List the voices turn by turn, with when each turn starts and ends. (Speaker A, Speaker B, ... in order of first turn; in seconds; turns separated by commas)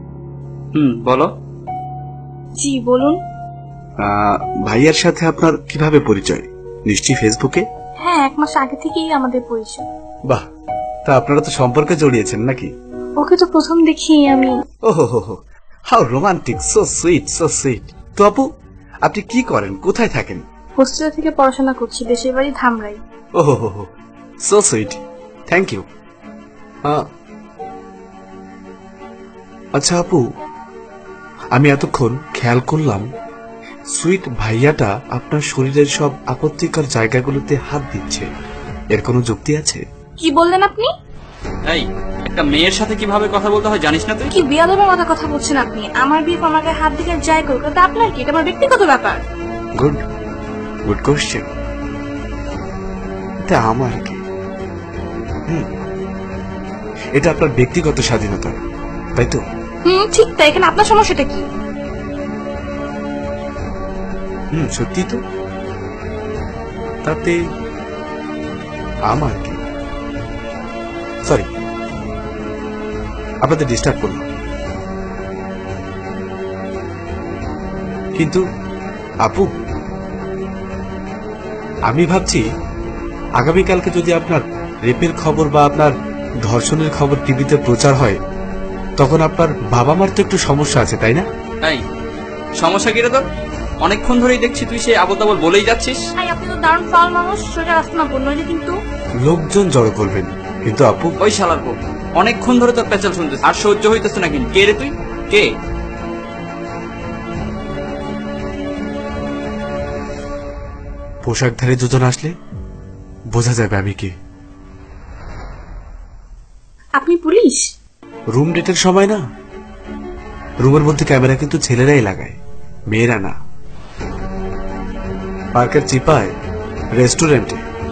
Speaker A: 0.7-1.3, Speaker B: 2.6-3.2, Speaker C: 4.0-7.6, Speaker B: 8.0-9.8, Speaker C: 11.1-12.7, Speaker B: 13.2-14.6, Speaker C: 14.9-18.5, Speaker C: 19.1-20.4, Speaker B: 20.8-23.0, Speaker C: 23.4-23.9, Speaker C: 24.4-25.8, Speaker C: 29.8-30.2, Speaker C: 31.6-33.1, Speaker C: 34.0-38.3, Speaker C: 38.9-39.8, Speaker B: 40.2-40.9, Speaker A: 41.7-44.3, Speaker B: 44.3-49.2, Speaker C: 50.9-51.5, Speaker C: 53.5-54.2, Speaker C: 57.2-58.6, Speaker C: 59.2-59.4, Speaker B: 59.9-61.4, Speaker C: 64.6-65.2, Speaker C: 67.0-67.4, Speaker C: 69.1-69.6, Speaker C: 73.4-74.3, Speaker C: 78.2-78.4, Speaker C: 81.9-82.4, Speaker C: 83.4-85.9, Speaker C: 86.5-88.2, Speaker C: 89.0-91.3, Speaker A: 92.6-93.2, Speaker A: 93.8-96.0, Speaker B: 96.2-98.7, Speaker C: 99.2-101.1, Speaker A: 101.2-105.5, Speaker C: 111.2-112.3, Speaker C: 113.3-114.1, Speaker B: 117.0-117.6, Speaker C: 118.3-119.2, Speaker C: 120.6-122.4, Speaker C: 122.9-123.3, Speaker C: 125.6-126.3, Speaker C: 127.0-127.6